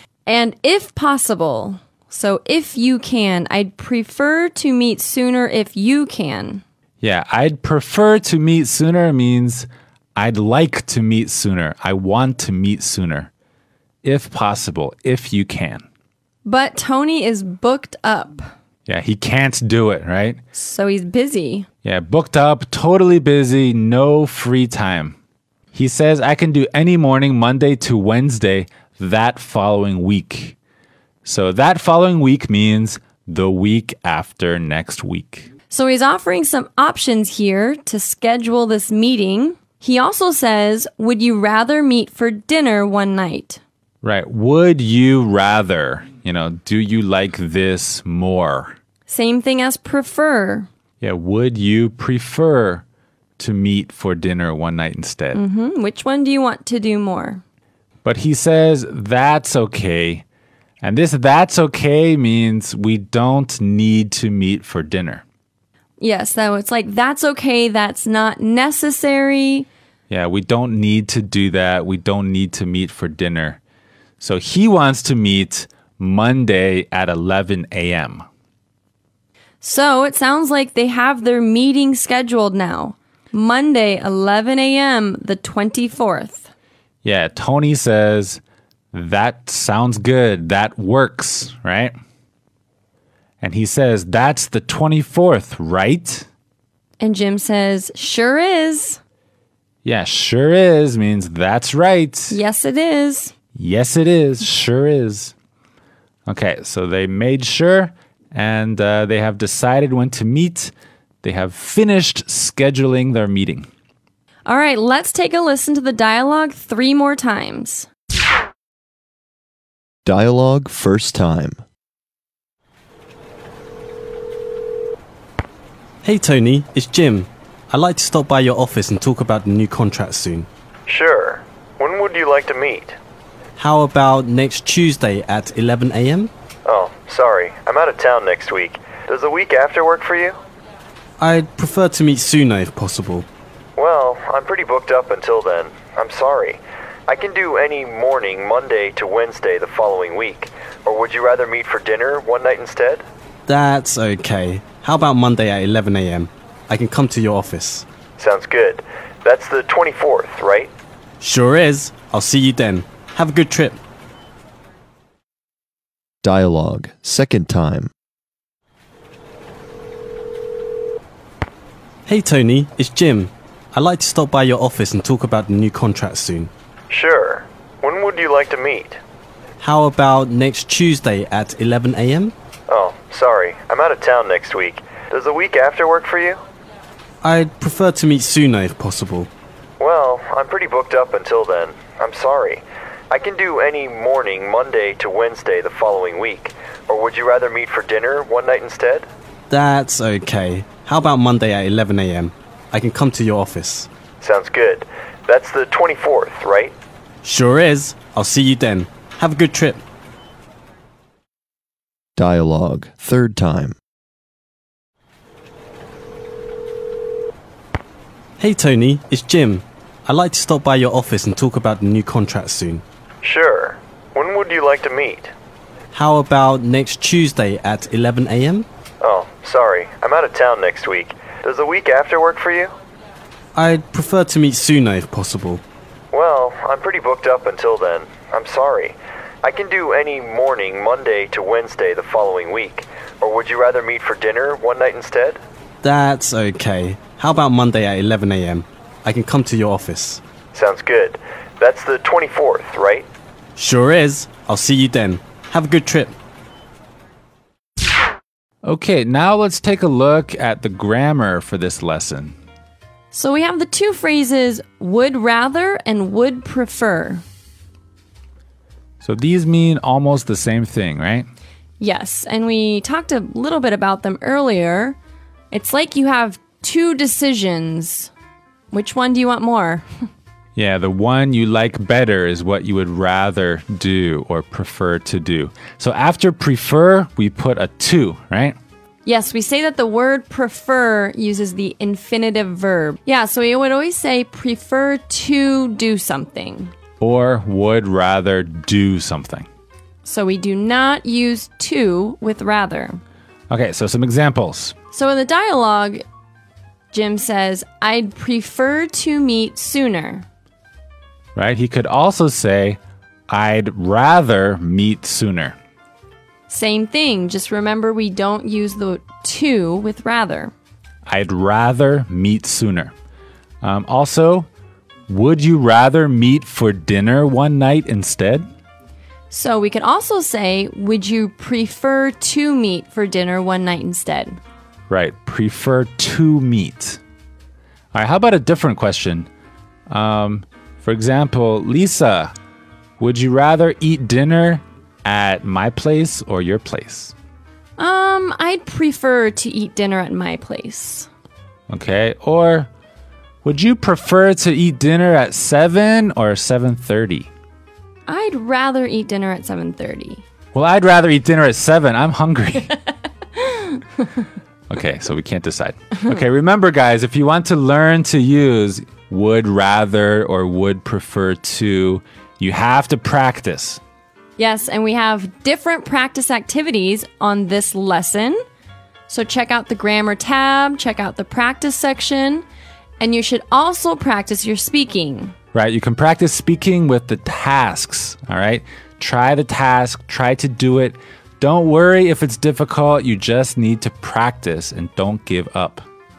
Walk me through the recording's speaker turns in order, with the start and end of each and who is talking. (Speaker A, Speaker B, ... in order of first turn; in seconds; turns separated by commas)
Speaker A: 0.3-6.6, Speaker B: 7.0-13.3, Speaker B: 14.0-15.8, Speaker A: 16.4-18.5, Speaker B: 18.9-20.4, Speaker A: 20.5-21.7, Speaker B: 21.8-25.2, Speaker B: 25.7-30.6, Speaker B: 31.2-35.5, Speaker A: 35.7-43.6, Speaker B: 44.0-48.8, Speaker A: 49.1-50.7, Speaker B: 51.0-52.8, Speaker B: 53.4-55.4, Speaker A: 55.3-57.4, Speaker B: 58.0-60.2, Speaker B: 60.8-65.2, Speaker A: 66.0-69.7, Speaker B: 70.1-73.6, Speaker B: 74.2-78.2, Speaker A: 79.6-86.5, Speaker B: 87.0-88.4, Speaker B: 88.9-91.9, Speaker B: 93.4-96.3, Speaker A: 97.0-99.0, Speaker B: 99.8-102.4, Speaker A: 102.3-103.3, Speaker B: 103.5-105.3, Speaker B: 106.3-113.7, Speaker A: 114.5-117.9, Speaker C: 120.0-121.6, Speaker D: 126.0-130.5, Speaker E: 130.9-133.0, Speaker D: 133.6-136.3, Speaker E: 136.7-140.4, Speaker D: 141.2-143.3, Speaker E: 143.8-153.1, Speaker D: 153.5-157.9, Speaker E: 158.2-160.7, Speaker D: 161.2-163.8, Speaker C: 166.2-167.9, Speaker D: 172.1-176.5, Speaker E: 176.9-179.0, Speaker D: 179.6-182.3, Speaker E: 182.7-186.4, Speaker D: 187.2-189.3, Speaker E: 189.8-199.1, Speaker D: 199.5-203.9, Speaker E: 204.2-206.8, Speaker D: 207.2-209.8, Speaker C: 212.2-213.8, Speaker D: 218.4-222.8, Speaker E: 223.2-225.3, Speaker D: 225.9-228.7, Speaker E: 229.0-232.8, Speaker D: 233.6-235.6, Speaker E: 236.1-245.4, Speaker D: 245.8-250.2, Speaker E: 250.5-253.1, Speaker D: 253.6-256.2, Speaker B: 258.6-262.4, Speaker A: 263.1-267.2, Speaker B: 269.0-271.3, Speaker A: 271.8-275.0, Speaker A: 275.5-278.1, Speaker A: 278.7-279.9, Speaker B: 280.6-288.6, Speaker A: 289.1-296.7, Speaker B: 297.0-299.5, Speaker A: 300.1-303.0, Speaker B: 303.5-304.8, Speaker A: 304.9-306.0, Speaker A: 306.9-310.3, Speaker B: 311.4-315.6, Speaker A: 316.5-320.5, Speaker B: 321.1-322.9, Speaker B: 323.6-324.5, Speaker B: 325.1-328.4, Speaker A: 329.3-334.4, Speaker B: 334.9-337.0, Speaker B: 337.9-339.3, Speaker B: 339.9-342.3, Speaker B: 343.0-347.1, Speaker A: 347.8-351.1, Speaker B: 351.7-352.7, Speaker B: 353.4-357.3, Speaker A: 358.1-360.2, Speaker B: 360.5-362.8, Speaker B: 364.7-373.8, Speaker A: 374.4-378.4, Speaker A: 379.1-382.4, Speaker A: 383.0-385.3, Speaker B: 385.5-395.9